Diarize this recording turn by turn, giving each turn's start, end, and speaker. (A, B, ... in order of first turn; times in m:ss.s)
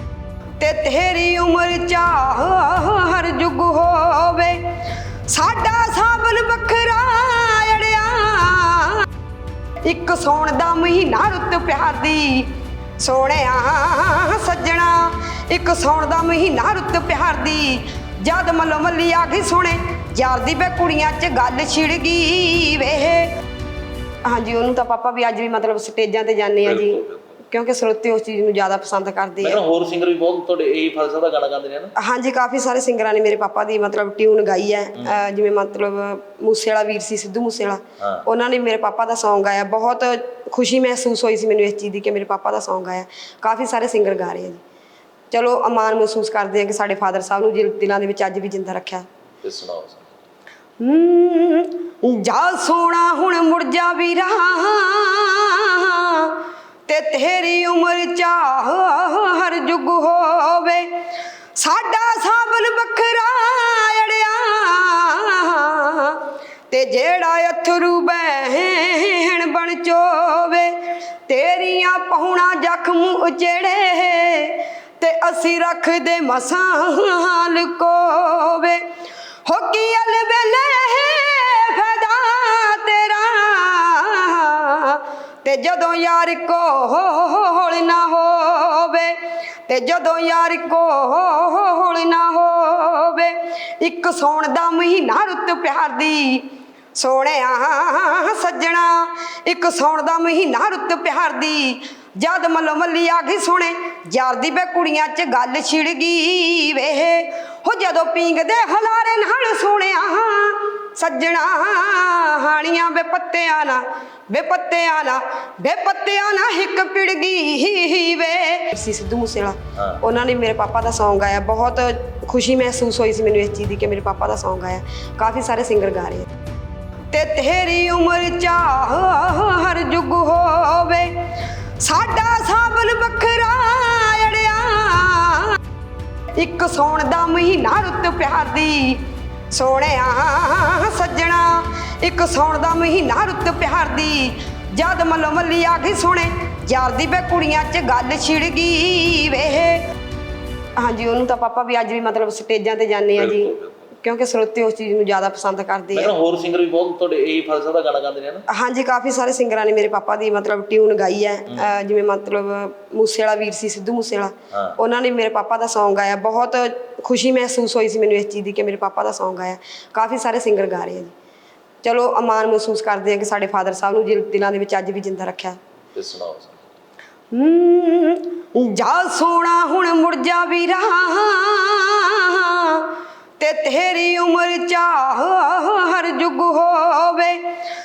0:00.6-0:04.8 A
0:05.3-0:09.1 A
0:09.8-0:23.3 A
0:24.3-0:29.6 A
0:26.6-0:27.3 B
0:29.4-0:31.9 B
0:32.0-0:44.6 A
0:45.3-0:49.1 A
0:49.4-0:50.1 B
0:50.8-1:00.9 A
1:01.6-1:18.8 A
1:19.4-2:06.3 A
2:07.1-2:11.2 A
2:11.8-2:15.6 A
2:16.4-2:29.8 A
2:30.8-2:36.1 A
2:33.2-2:33.8 B
2:35.9-2:38.5 B
2:38.5-2:51.1 A
2:51.8-2:55.6 A
2:55.9-2:56.6 B
2:57.3-3:07.4 A